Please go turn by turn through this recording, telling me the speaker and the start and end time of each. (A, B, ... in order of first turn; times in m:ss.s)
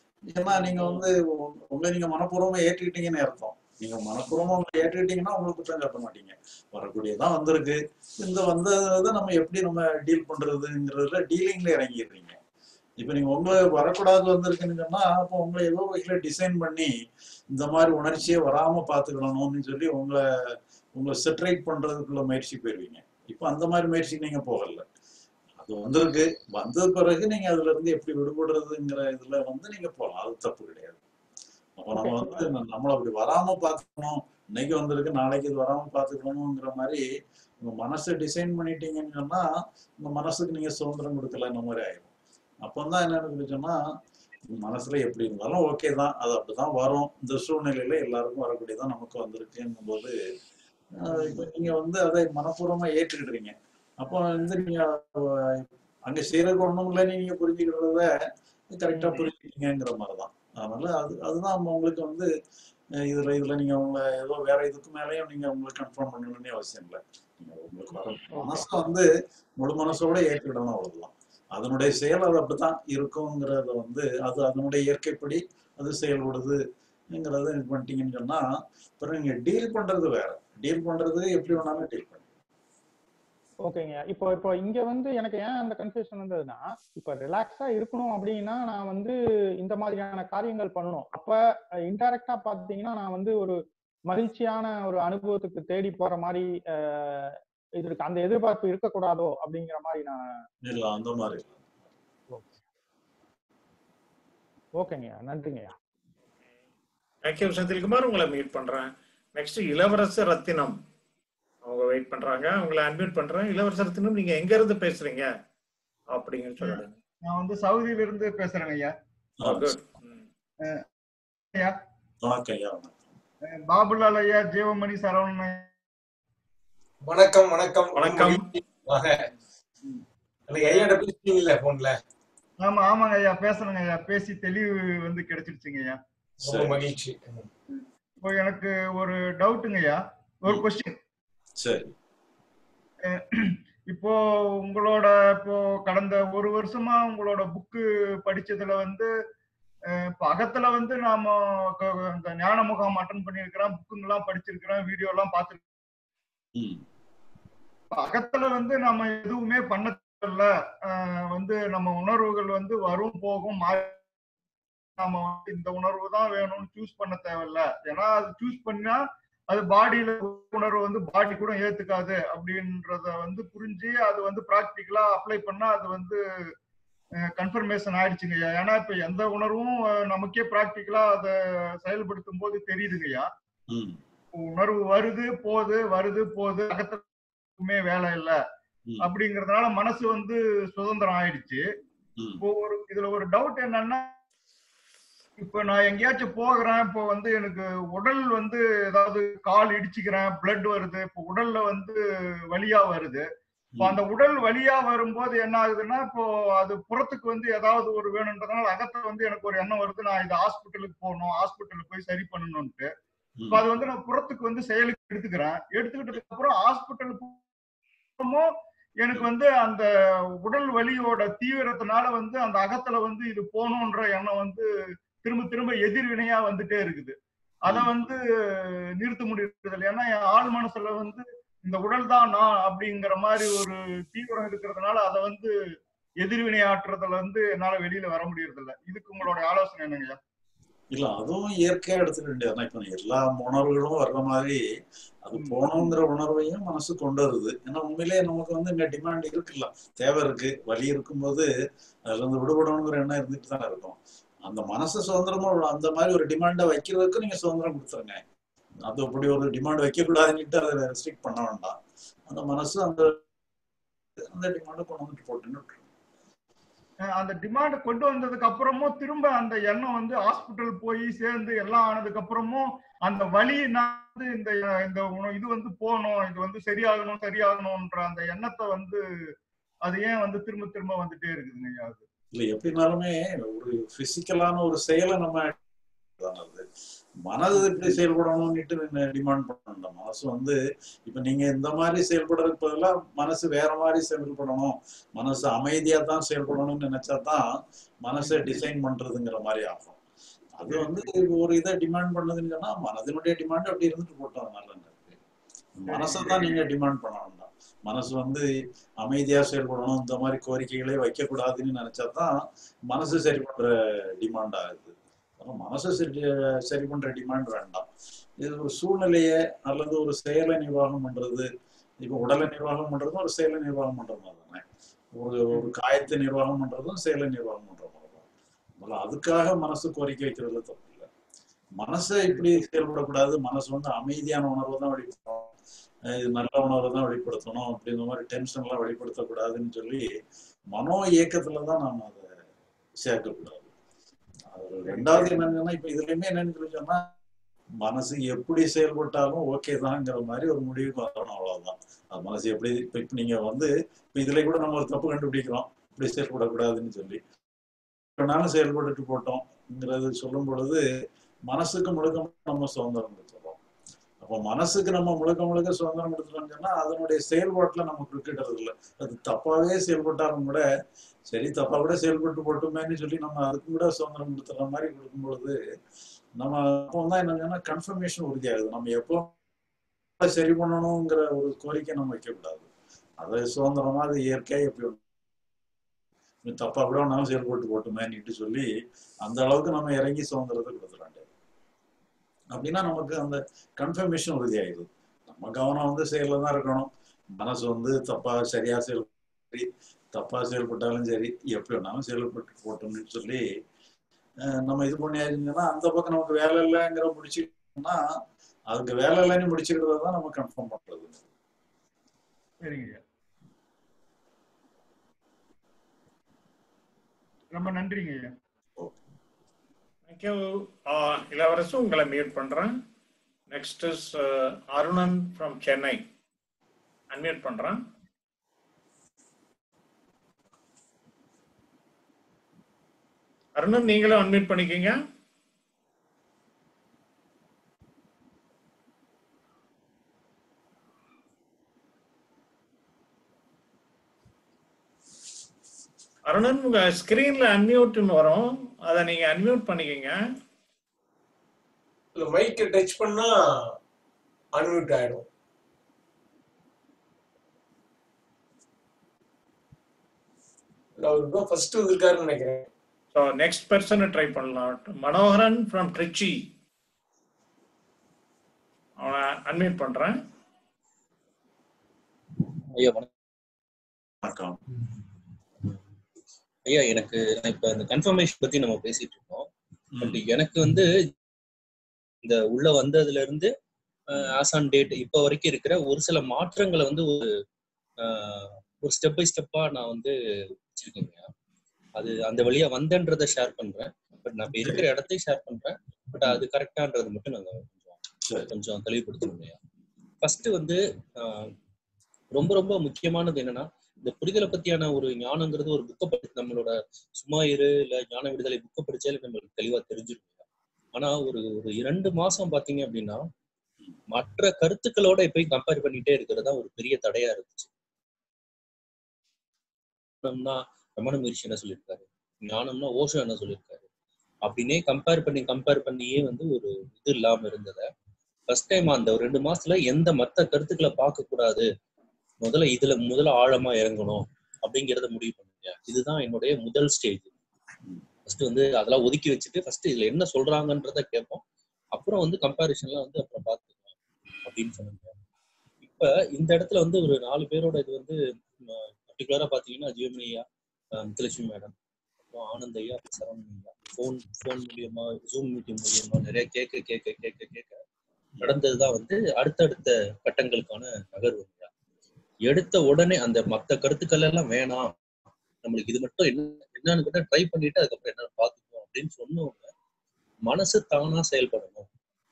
0:00.3-0:12.4 A
0:00.5-0:01.0 B
0:13.0-0:16.9 A
0:17.5-0:20.2 A
0:21.0-0:24.8 A
0:25.6-0:31.0 A
0:31.8-0:37.0 A
0:31.9-0:32.4 B
0:37.6-0:39.4 A
0:40.0-0:42.1 A
0:42.6-0:43.8 A
0:44.5-0:50.2 A
0:51.0-0:58.1 A
0:51.2-0:51.5 B
0:58.8-1:02.3 A
0:58.9-0:59.2 B
1:03.1-1:09.1 A
1:09.6-1:16.6 A
1:17.2-1:18.4 A
1:19.0-1:22.3 A
1:23.6-1:31.4 B
1:31.9-1:33.6 B
1:34.1-1:40.2 B
1:40.6-1:41.6 A
1:42.3-1:42.6 B
1:44.8-1:45.8 B
1:47.3-1:50.8 C
1:51.7-1:55.3 C
1:56.1-1:57.0 C
1:56.6-1:58.9 D
1:59.4-1:59.8 A
1:59.4-2:00.2 C
2:02.2-2:03.1 A
2:03.5-2:05.7 D
2:07.0-2:09.2 E
2:08.0-2:08.4 C
2:10.5-2:12.0 E
2:12.6-2:16.0 D
2:16.4-2:17.5 E
2:16.4-2:16.8 A
2:18.2-2:20.9 D
2:21.6-2:21.9 A
2:23.1-2:29.1 D
2:30.2-2:35.6 D
2:36.6-2:36.8 A
2:38.0-2:44.0 D
2:45.0-2:56.2 D
2:57.4-3:03.3 D
3:03.7-3:04.0 A
3:04.4-3:07.0 D
3:07.6-3:08.4 D
3:09.0-3:11.6 D
3:12.4-3:14.1 D
3:15.4-3:22.0 D
3:22.5-3:23.3 D
3:23.8-3:32.9 D
3:33.5-3:37.4 D
3:38.2-3:38.5 D
3:39.0-3:39.9 D
3:40.4-3:44.7 D
3:45.2-3:48.2 D
3:49.0-3:55.5 D
3:56.2-4:00.2 D
4:00.9-4:04.6 A
4:05.2-4:11.5 A
4:05.4-4:05.9 D
4:12.1-4:18.2 A
4:18.8-4:21.8 A
4:22.3-4:23.2 A
4:24.3-4:25.9 A
4:27.2-4:39.0 D
4:39.8-4:42.0 D
4:42.3-4:45.6 A
4:46.2-4:46.6 A
4:47.2-4:57.4 A
4:58.0-5:00.0 A
4:58.2-4:58.6 D
5:00.6-5:05.2 A
5:00.7-5:01.0 D
5:05.8-5:08.5 A
5:05.9-5:06.5 D
5:09.0-5:12.3 A
5:12.9-5:17.8 A
5:18.4-5:21.5 A
5:22.0-5:24.6 A
5:25.2-5:28.3 A
5:28.8-5:31.1 A
5:31.8-5:35.5 A
5:36.1-5:40.1 A
5:40.7-5:42.3 A
5:43.0-5:43.7 A
5:44.5-5:47.1 A
5:44.9-5:45.4 D
5:47.8-5:57.2 A
5:58.2-6:00.8 A
6:01.5-6:03.6 A
6:04.2-6:10.6 A
6:11.3-6:15.6 A
6:16.4-6:19.3 A
6:20.2-6:22.7 A
6:23.2-6:25.0 A
6:26.4-6:28.7 A
6:29.2-6:31.3 A
6:32.5-6:43.4 A
6:44.6-6:48.0 A
6:48.7-6:51.2 A
6:52.6-6:53.0 D
6:57.5-6:58.3 D
7:00.1-7:02.7 C
7:03.5-7:06.0 C
7:07.1-7:07.8 C
7:13.6-7:15.0 C
7:26.3-7:30.2 C
7:32.2-7:33.7 E
7:34.5-7:35.3 E
7:41.0-7:42.7 E
7:43.1-7:46.5 C
7:49.0-7:50.2 C
7:52.7-7:53.1 F
7:54.2-7:54.6 A
7:56.7-7:59.5 F
8:00.0-8:00.2 A
8:00.0-8:00.9 F
8:02.2-8:03.5 F
8:04.1-8:07.3 F
8:08.0-8:10.2 F
8:10.8-8:11.3 F
8:12.0-8:18.0 F
8:18.2-8:18.5 A
8:18.5-8:19.6 F
8:20.2-8:21.5 F
8:22.4-8:30.4 F
8:30.9-8:33.2 F
8:34.1-8:37.7 F
8:40.2-8:43.9 F
8:44.4-8:47.9 F
8:48.5-8:51.7 F
8:52.4-8:57.3 F
8:58.3-9:01.4 F
9:01.9-9:03.9 F
9:04.4-9:05.2 F
9:05.8-9:10.4 F
9:11.0-9:11.7 F
9:12.3-9:17.8 F
9:18.4-9:21.7 F
9:22.5-9:24.9 F
9:25.6-9:29.7 F
9:30.5-9:31.9 F